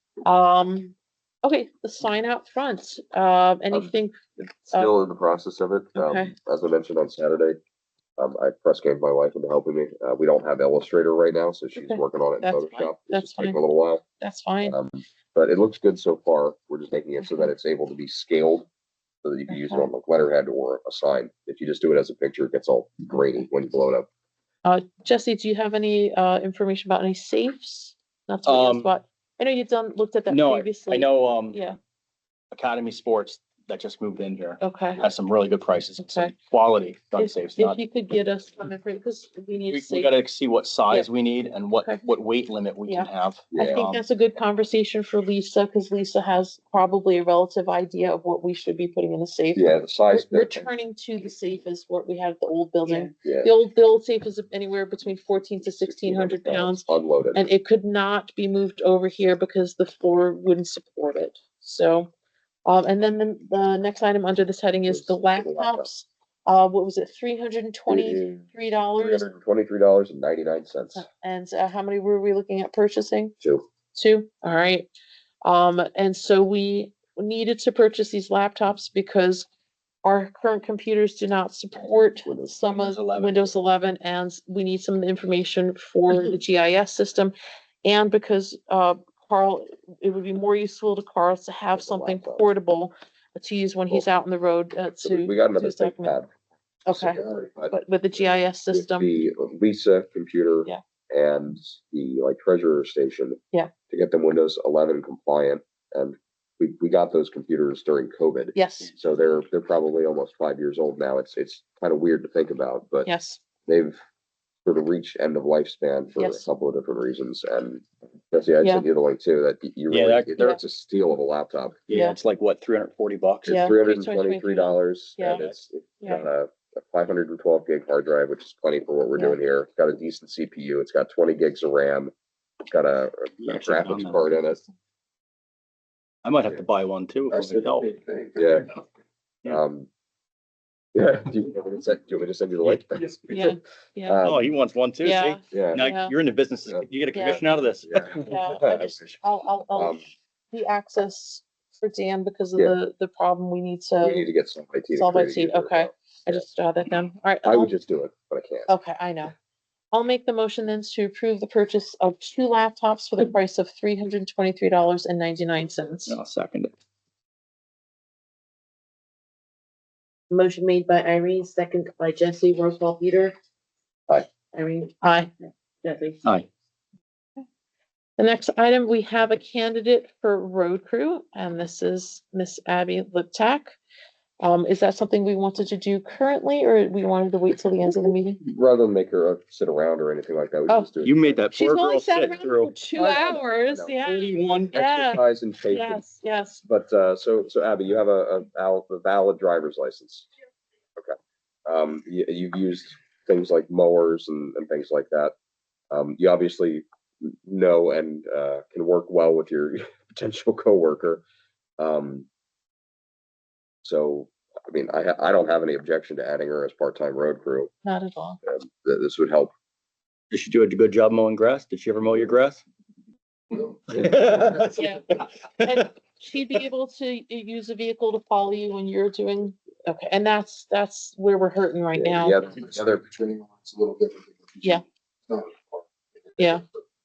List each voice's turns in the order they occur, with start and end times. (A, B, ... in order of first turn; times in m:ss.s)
0:00.2-0:04.2 A
0:04.4-0:07.6 B
0:05.9-0:06.3 A
0:08.2-0:14.0 B
0:11.7-0:13.6 A
0:14.2-0:14.8 A
0:14.6-0:18.7 B
0:17.2-0:17.5 A
0:19.2-0:24.1 B
0:19.5-0:19.9 A
0:24.6-0:31.8 A
0:28.4-0:28.9 C
0:30.3-0:31.6 C
0:32.5-0:37.8 C
0:34.6-0:35.1 A
0:36.0-0:36.3 A
0:37.2-0:40.1 A
0:39.7-0:43.5 C
0:42.8-1:02.1 A
0:43.5-0:44.0 B
0:49.5-0:50.6 B
0:52.8-0:53.1 D
0:53.2-0:53.5 B
0:55.6-0:57.5 B
1:02.6-1:09.3 A
1:04.8-1:05.9 B
1:07.9-1:11.0 B
1:10.9-1:13.3 A
1:13.9-1:14.9 A
1:15.4-1:19.5 A
1:20.0-1:36.2 A
1:22.2-1:22.5 B
1:22.7-1:23.5 C
1:31.8-1:32.4 B
1:35.0-1:36.3 B
1:36.8-1:39.1 A
1:36.9-1:37.5 E
1:38.7-1:43.4 B
1:43.9-1:53.1 B
1:48.5-1:48.9 A
1:53.0-1:53.4 A
1:53.6-1:54.0 B
1:54.6-2:01.8 B
1:56.2-1:56.4 A
1:59.9-2:00.6 C
2:01.9-2:03.8 C
2:01.9-2:02.2 A
2:03.5-2:05.4 A
2:03.5-2:12.1 B
2:06.0-2:06.2 A
2:12.6-2:14.6 B
2:13.4-2:14.4 C
2:16.2-2:17.9 C
2:17.3-2:18.8 E
2:18.4-2:18.7 B
2:19.4-2:19.9 B
2:20.9-2:23.4 B
2:23.3-2:24.2 A
2:24.0-2:24.5 B
2:24.2-2:28.3 C
2:25.0-2:26.1 A
2:25.5-2:25.9 B
2:27.1-2:27.4 A
2:27.9-2:29.2 B
2:28.2-2:30.0 A
2:29.7-2:30.0 B
2:30.5-2:34.2 A
2:34.0-2:36.4 B
2:34.9-2:37.7 A
2:37.4-2:38.7 B
2:38.7-2:39.3 A
2:39.9-2:46.2 A
2:46.1-2:46.7 C
2:50.3-2:53.3 D
2:54.5-2:54.9 D
2:55.0-2:55.3 A
2:55.8-2:56.2 D
2:58.2-3:03.8 A
3:04.4-3:08.4 A
3:08.4-3:11.3 B
3:11.0-3:12.7 C
3:11.5-3:16.6 A
3:12.9-3:14.0 B
3:14.0-3:14.8 C
3:14.7-3:16.0 B
3:16.6-3:20.3 B
3:21.0-3:25.3 B
3:25.9-3:31.2 B
3:31.8-3:32.2 B
3:33.8-3:37.7 B
3:37.8-3:38.4 A
3:38.4-3:39.5 B
3:40.3-3:42.6 C
3:43.5-3:43.8 E
3:43.9-3:45.8 C
3:44.7-3:45.0 A
3:45.6-3:52.4 A
3:51.9-3:53.0 B
3:52.4-3:56.8 E
3:56.4-3:56.6 A